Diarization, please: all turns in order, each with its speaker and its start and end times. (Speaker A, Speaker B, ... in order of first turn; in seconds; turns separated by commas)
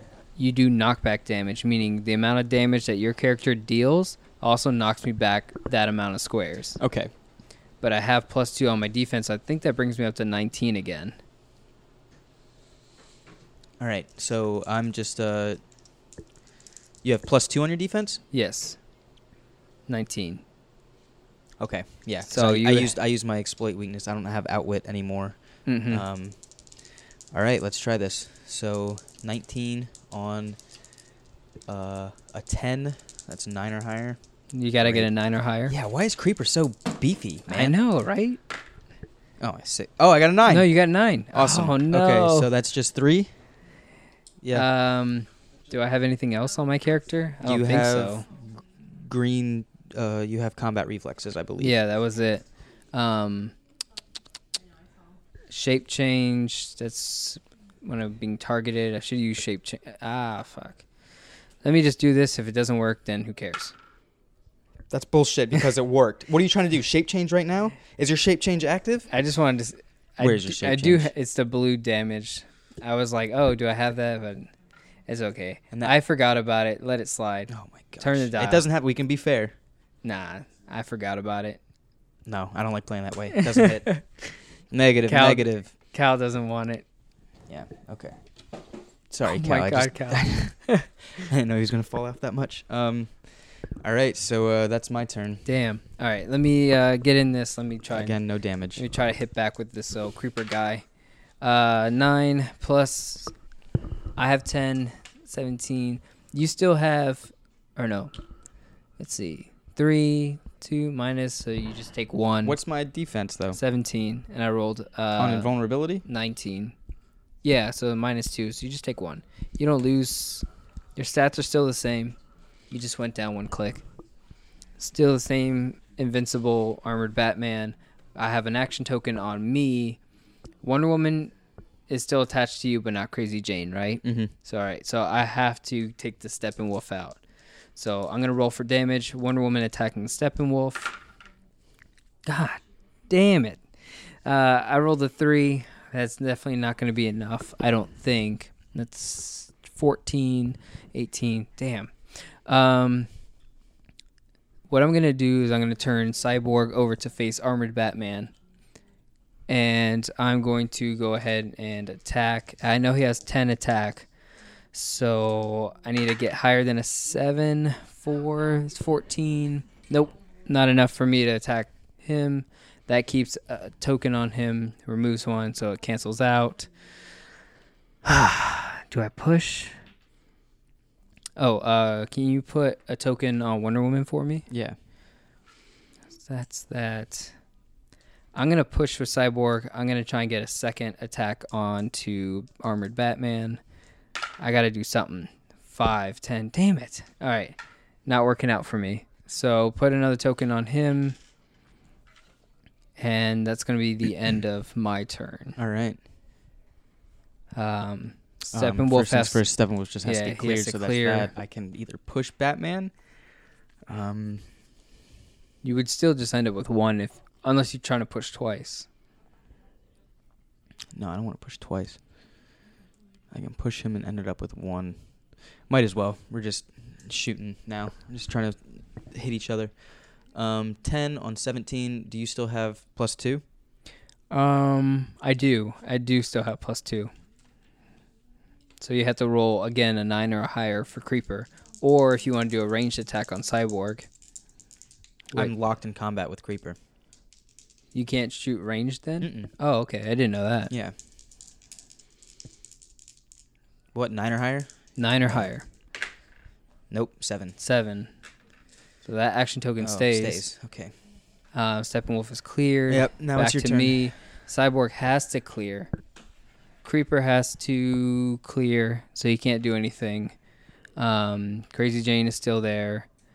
Speaker A: 0.4-6.8, Speaker B: 6.8-7.1, Speaker A: 7.8-11.2, Speaker B: 13.8-15.6, Speaker B: 17.0-18.2, Speaker A: 18.3-18.8, Speaker A: 19.9-20.4, Speaker B: 21.6-25.4, Speaker A: 22.3-22.9, Speaker A: 25.6-26.0, Speaker B: 25.9-26.4, Speaker B: 27.3-30.6, Speaker B: 31.7-34.2, Speaker A: 34.5-35.7, Speaker B: 34.8-35.1, Speaker B: 35.7-37.8, Speaker A: 37.5-38.4, Speaker B: 39.4-40.7, Speaker A: 40.5-42.5, Speaker B: 41.3-43.3, Speaker B: 44.4-44.7, Speaker A: 44.5-48.3, Speaker B: 47.4-51.8, Speaker A: 51.6-53.5, Speaker A: 55.5-60.8, Speaker A: 61.6-63.7, Speaker B: 64.9-69.1, Speaker A: 69.1-74.5, Speaker B: 70.2-71.1, Speaker A: 75.1-78.6, Speaker B: 77.5-79.5, Speaker A: 80.0-81.6, Speaker B: 82.2-83.9, Speaker A: 83.3-84.0, Speaker B: 84.7-85.7, Speaker A: 85.1-86.8, Speaker B: 87.5-88.1, Speaker B: 89.1-90.5, Speaker A: 89.2-90.9, Speaker B: 91.2-95.4, Speaker A: 95.5-98.2, Speaker B: 97.9-98.8, Speaker A: 98.8-100.8, Speaker A: 101.4-103.3, Speaker A: 104.2-108.1, Speaker A: 109.0-112.6, Speaker B: 112.4-113.6, Speaker A: 113.5-115.5, Speaker B: 115.2-116.0, Speaker A: 116.0-116.7, Speaker A: 117.4-122.2, Speaker A: 122.7-123.8, Speaker A: 124.8-130.0, Speaker A: 130.6-131.3, Speaker A: 131.9-137.2, Speaker B: 134.0-134.3, Speaker A: 137.8-140.9, Speaker A: 142.2-143.6, Speaker A: 144.2-153.1, Speaker A: 154.7-158.3, Speaker A: 159.5-164.1, Speaker A: 164.7-176.7, Speaker A: 178.0-179.7, Speaker A: 181.4-184.4, Speaker B: 184.5-184.8, Speaker A: 186.2-187.3, Speaker A: 188.3-193.6, Speaker A: 194.4-201.2, Speaker A: 203.0-205.6, Speaker B: 205.6-206.0, Speaker A: 207.5-209.4, Speaker B: 208.5-212.9, Speaker A: 210.0-211.3, Speaker B: 213.9-214.4, Speaker A: 215.6-218.9, Speaker B: 220.9-222.0, Speaker B: 223.3-225.0, Speaker B: 225.7-233.4, Speaker A: 234.3-237.1, Speaker A: 238.8-244.1, Speaker B: 245.3-246.8, Speaker A: 247.9-250.7, Speaker B: 249.2-249.5, Speaker B: 250.7-250.9, Speaker B: 253.9-254.7, Speaker A: 255.0-255.7, Speaker B: 256.9-257.6, Speaker A: 257.6-258.1, Speaker A: 259.0-260.4, Speaker B: 259.8-260.9, Speaker A: 261.5-265.9, Speaker B: 262.9-264.1, Speaker A: 266.8-270.3, Speaker A: 271.0-273.1